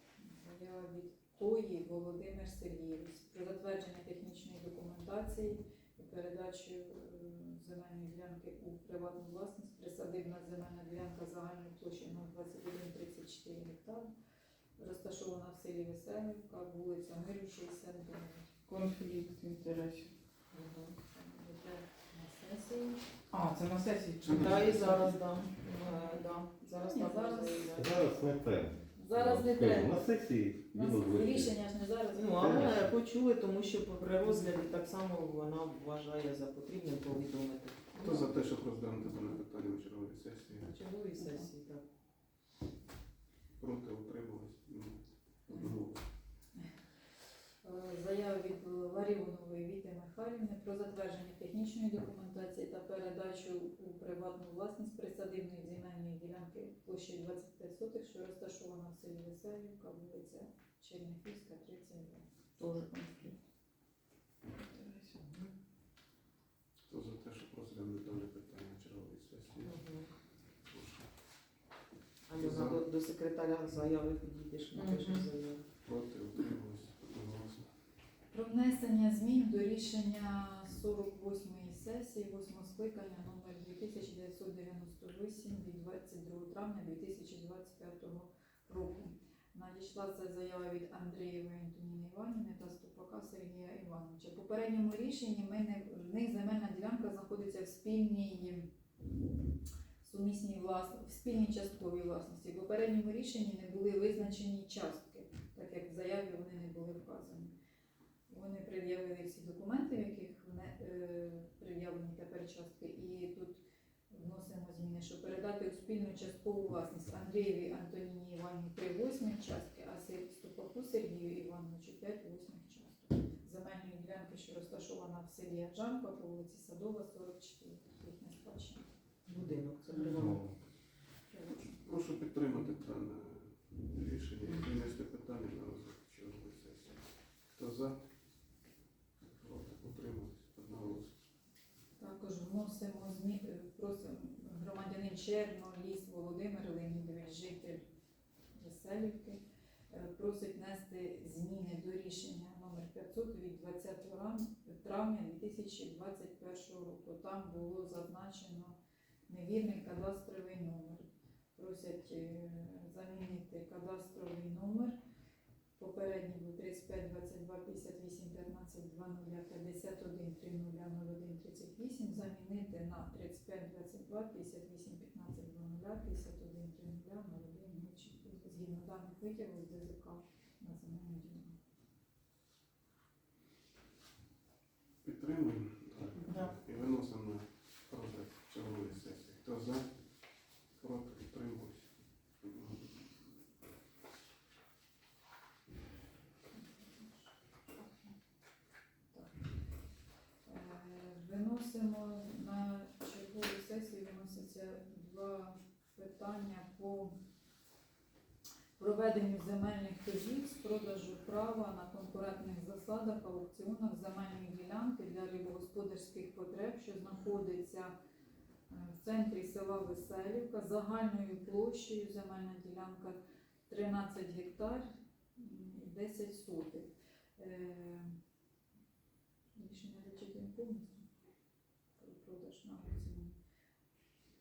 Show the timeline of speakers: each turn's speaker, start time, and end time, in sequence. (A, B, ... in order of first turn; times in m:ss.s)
0:00.2-0:14.1 A
0:14.8-0:18.5 A
0:18.7-0:20.1 B
0:20.5-0:21.0 C
0:21.1-0:23.1 A
0:23.3-0:25.2 B
0:24.2-0:28.0 C
0:25.8-0:27.7 A
0:27.8-0:31.6 D
0:29.0-0:30.1 A
0:30.7-0:32.7 A
0:32.2-0:38.1 C
0:32.4-0:32.9 D
0:38.0-0:40.7 E
0:40.6-0:41.8 C
0:43.6-0:46.0 E
0:47.6-1:02.9 A
1:02.6-1:03.2 B
1:04.7-1:05.3 B
1:06.9-1:09.8 E
1:09.6-1:10.1 C
1:10.7-1:11.1 E
1:12.3-1:15.6 C
1:12.4-1:12.8 E
1:14.8-1:15.3 B
1:15.8-1:17.7 E
1:18.3-1:38.7 A
1:40.0-1:47.5 A
1:48.3-2:08.9 A
2:09.3-2:10.5 C
2:10.2-2:10.6 D
2:11.3-2:11.7 A
2:11.8-2:18.0 E
2:19.3-2:21.1 E
2:22.0-2:27.8 A
2:28.6-2:38.8 A
2:39.3-2:45.0 A
2:45.8-3:01.6 A
3:05.0-3:09.9 E
3:10.8-3:11.9 E
3:12.4-3:12.8 E
3:16.6-3:17.1 A
3:20.5-3:27.1 A
3:28.8-3:37.9 A
3:38.7-3:43.2 A
3:43.7-3:48.2 A
3:49.6-3:51.1 A
3:52.0-3:53.4 A